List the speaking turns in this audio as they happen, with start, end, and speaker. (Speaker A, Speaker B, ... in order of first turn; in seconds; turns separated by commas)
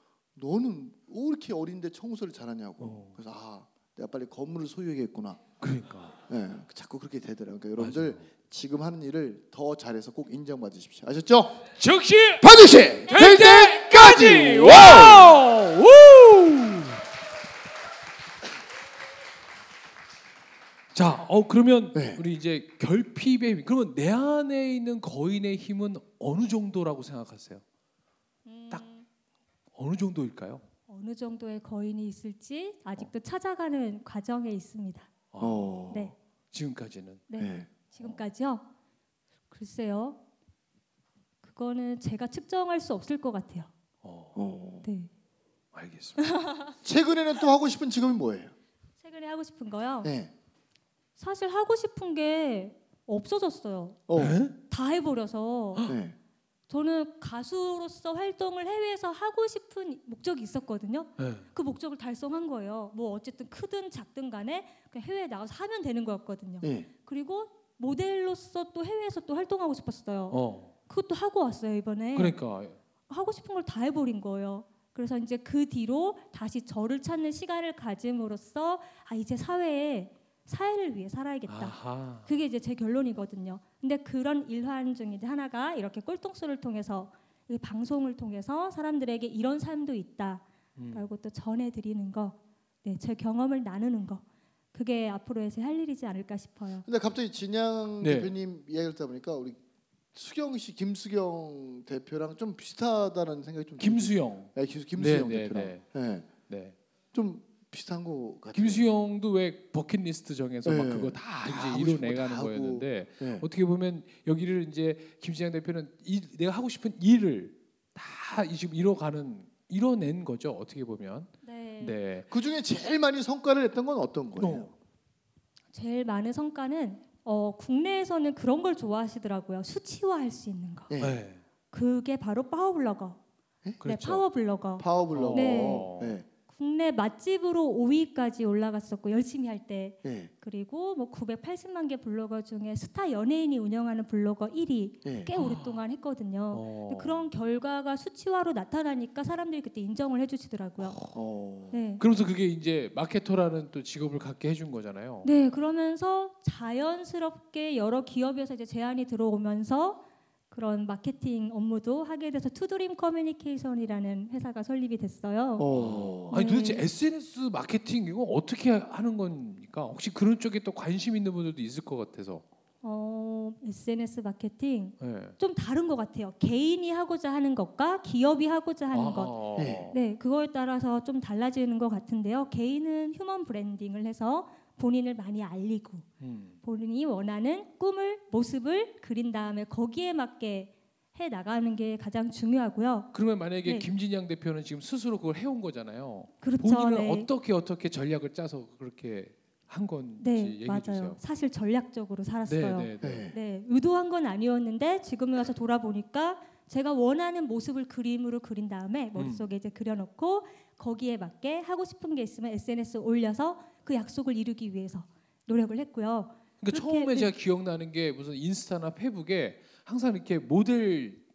Speaker A: 0.3-5.4, Speaker B: 2.8-3.2, Speaker B: 5.6-6.2, Speaker A: 6.3-11.6, Speaker B: 7.8-8.2, Speaker B: 11.8-12.5, Speaker A: 12.4-15.4, Speaker B: 13.1-17.0, Speaker B: 20.9-27.6, Speaker A: 21.9-22.2, Speaker C: 28.4-29.1, Speaker B: 29.7-30.6, Speaker C: 30.9-35.1, Speaker B: 35.3-35.7, Speaker A: 35.4-36.1, Speaker B: 36.5-37.3, Speaker C: 37.3-38.7, Speaker A: 37.4-37.7, Speaker C: 39.5-40.2, Speaker C: 41.4-43.7, Speaker B: 44.0-44.4, Speaker A: 44.4-44.9, Speaker C: 44.8-45.1, Speaker B: 45.7-46.3, Speaker C: 46.2-46.8, Speaker A: 46.8-48.5, Speaker C: 49.0-50.1, Speaker A: 50.0-50.3, Speaker C: 51.2-54.0, Speaker A: 54.1-54.4, Speaker B: 54.1-54.6, Speaker C: 54.7-56.0, Speaker A: 55.9-56.2, Speaker C: 56.7-72.4, Speaker B: 61.2-61.5, Speaker A: 66.6-66.9, Speaker B: 70.3-70.7, Speaker B: 72.1-72.8, Speaker C: 73.1-96.9, Speaker B: 81.5-82.3, Speaker B: 90.8-91.1, Speaker A: 96.9-99.6, Speaker B: 98.0-98.3, Speaker A: 100.1-106.3, Speaker B: 103.8-105.8, Speaker B: 106.5-106.8, Speaker A: 107.1-108.9, Speaker B: 108.5-122.3, Speaker A: 110.6-113.5, Speaker C: 121.4-122.0, Speaker A: 122.3-124.7, Speaker B: 124.4-124.7, Speaker C: 125.7-130.9, Speaker A: 130.9-131.2, Speaker B: 131.0-131.4, Speaker C: 131.7-133.2, Speaker B: 133.8-134.2, Speaker C: 133.8-135.9, Speaker A: 134.8-136.3, Speaker B: 135.1-136.2, Speaker C: 136.5-151.0, Speaker A: 140.0-140.3, Speaker A: 145.0-145.3, Speaker B: 145.4-145.8, Speaker B: 146.5-147.3, Speaker A: 151.1-151.8, Speaker C: 151.7-152.0, Speaker B: 152.0-155.3, Speaker C: 155.2-165.7, Speaker A: 165.6-166.3, Speaker B: 165.7-172.4, Speaker C: 166.3-166.9, Speaker C: 172.8-186.1, Speaker B: 175.0-175.4, Speaker B: 178.9-180.0, Speaker A: 179.6-179.9, Speaker B: 186.2-186.6, Speaker C: 186.6-193.1, Speaker B: 193.1-201.2, Speaker C: 193.6-193.9, Speaker C: 196.4-197.3, Speaker C: 200.2-217.3, Speaker B: 202.5-203.3, Speaker A: 203.0-203.3, Speaker B: 209.2-209.5, Speaker B: 216.6-221.2